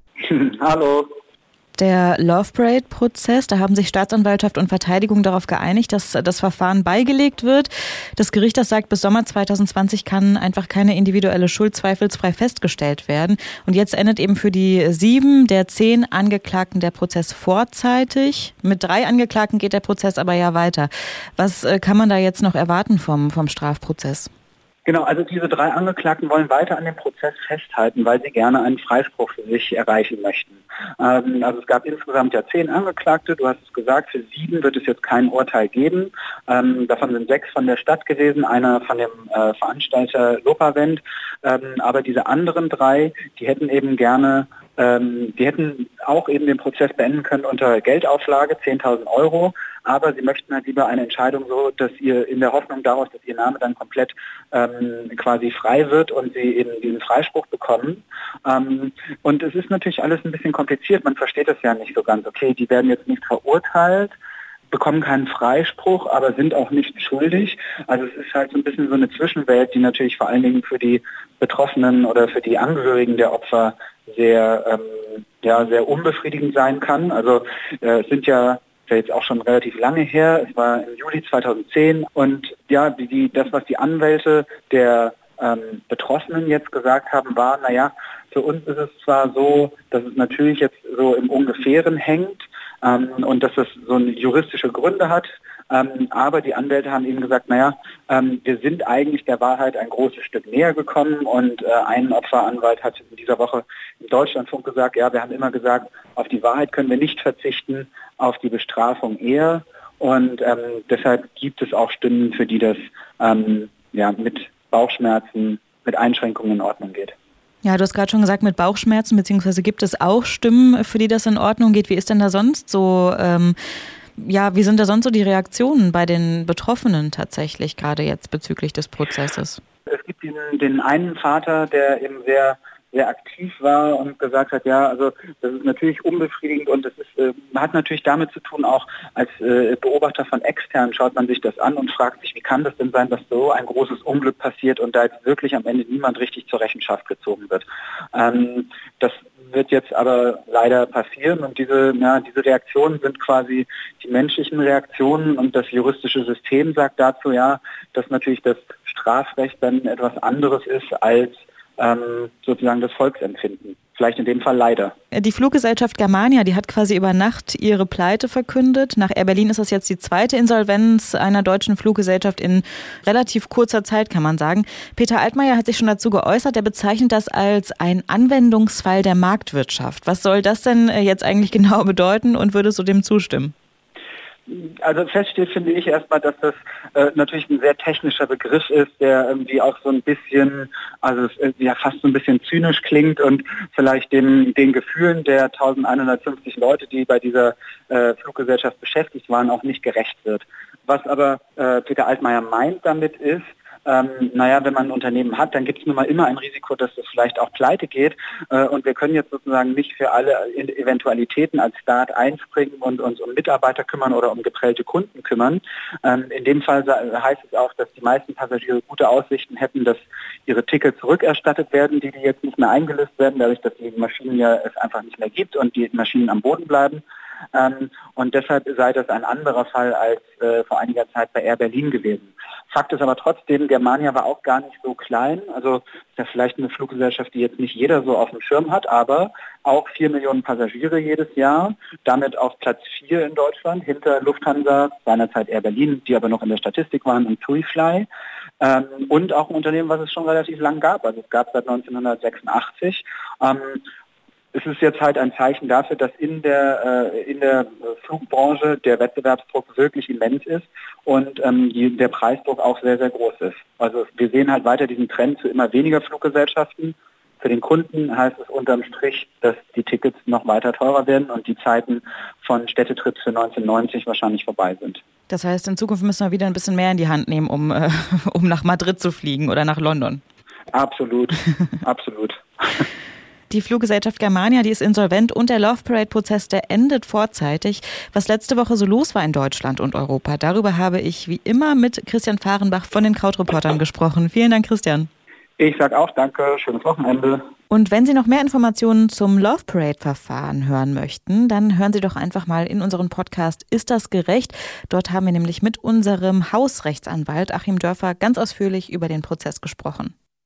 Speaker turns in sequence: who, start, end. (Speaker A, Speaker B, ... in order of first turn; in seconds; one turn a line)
Speaker A: 0.2-1.1
Speaker B: 1.8-24.3
Speaker A: 24.8-64.1
Speaker A: 64.7-117.2
Speaker B: 117.6-123.5
Speaker B: 124.2-129.6
Speaker A: 129.9-164.9
Speaker B: 165.1-183.5
Speaker A: 184.5-227.0
Speaker A: 227.5-248.1
Speaker A: 248.6-253.8
Speaker A: 254.5-275.0
Speaker B: 275.3-280.2
Speaker A: 280.7-282.9
Speaker B: 283.5-295.1
Speaker A: 295.6-297.4
Speaker B: 297.7-310.1